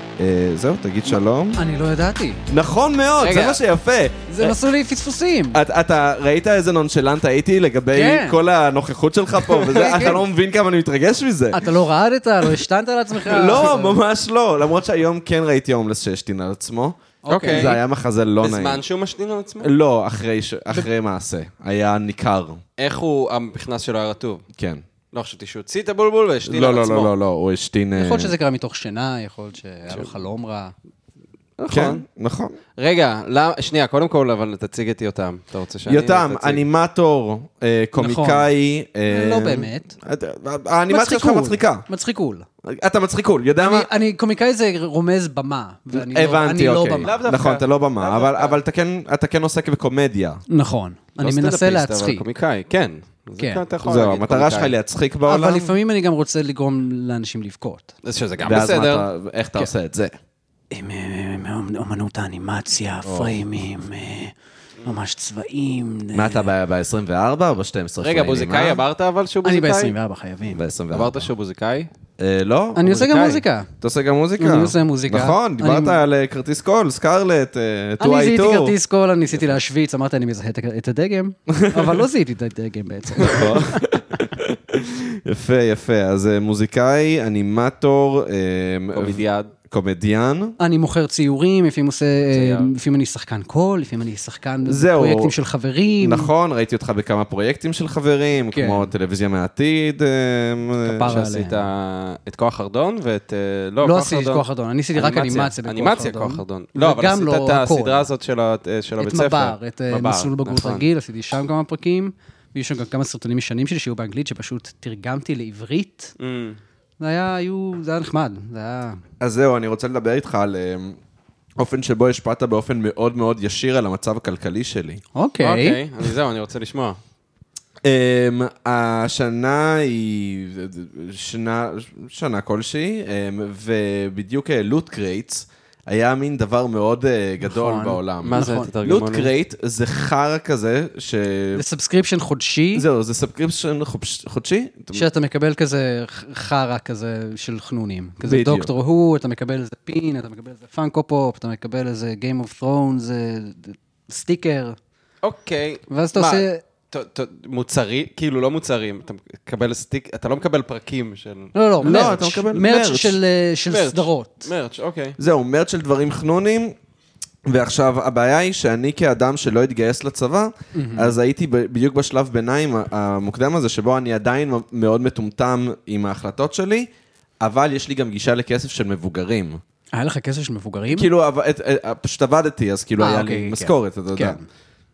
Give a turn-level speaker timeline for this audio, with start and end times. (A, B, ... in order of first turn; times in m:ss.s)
0:00.2-0:01.6 A
0:01.6-0:02.4 B
0:02.5-0:04.5 A
0:03.2-0:03.6 C
0:04.3-0:05.6 B
0:05.5-0:11.6 A
0:07.9-0:08.4 B
0:09.6-0:10.1 C
0:09.9-0:10.1 B
0:11.5-0:14.0 B
0:13.2-0:18.8 A
0:17.2-0:17.8 B
0:17.3-0:17.8 C
0:18.4-0:19.7 C
0:19.6-0:22.6 A
0:22.8-0:24.4 C
0:24.5-0:24.8 A
0:25.1-0:27.1 C
0:26.4-0:28.3 A
0:28.0-0:30.7 B
0:31.6-0:32.0 C
0:31.7-0:32.6 A
0:32.8-0:36.6 C
0:35.9-0:41.8 A
0:38.0-0:38.5 B
0:39.1-0:40.0 B
0:40.9-0:42.5 B
0:42.6-0:43.9 A
0:43.6-0:47.1 B
0:45.9-0:50.4 A
0:47.0-0:48.6 C
0:50.5-0:52.2 B
0:51.2-0:54.7 C
0:53.8-0:55.7 A
0:55.2-0:57.9 B
0:58.0-0:59.1 C
0:58.4-1:00.1 A
1:00.7-1:06.5 B
1:03.0-1:03.4 A
1:06.1-1:08.8 A
1:08.0-1:09.9 C
1:09.4-1:10.6 B
1:10.5-1:11.3 A
1:10.9-1:11.9 C
1:12.2-1:12.8 A
1:12.8-1:13.7 B
1:12.8-1:13.4 C
1:13.8-1:18.8 A
1:14.4-1:16.0 B
1:18.0-1:23.9 B
1:21.5-1:22.0 A
1:23.2-1:30.6 A
1:28.9-1:29.5 C
1:30.6-1:36.3 B
1:32.3-1:32.7 C
1:34.6-1:35.3 A
1:36.0-1:41.1 A
1:38.5-1:38.9 B
1:40.8-1:41.7 B
1:41.0-1:50.8 C
1:43.8-1:48.1 B
1:49.0-1:56.1 B
1:56.2-1:56.6 C
1:57.0-1:59.0 B
1:59.2-2:01.0 A
2:01.6-2:05.0 A
2:05.1-2:05.8 B
2:05.4-2:07.0 C
2:07.8-2:21.6 A
2:17.4-2:18.7 B
2:18.2-2:19.3 C
2:21.5-2:22.8 B
2:22.7-2:25.1 A
2:24.9-2:34.8 B
2:28.2-2:28.7 A
2:35.2-2:41.5 C
2:35.9-2:36.6 B
2:41.5-2:44.5 B
2:41.8-2:43.2 A
2:43.7-2:45.2 C
2:45.2-2:46.8 A
2:47.4-2:56.9 A
2:50.7-2:51.2 B
2:57.4-2:59.6 A
2:59.9-3:01.1 B
3:00.9-3:04.4 A
3:03.0-3:04.5 B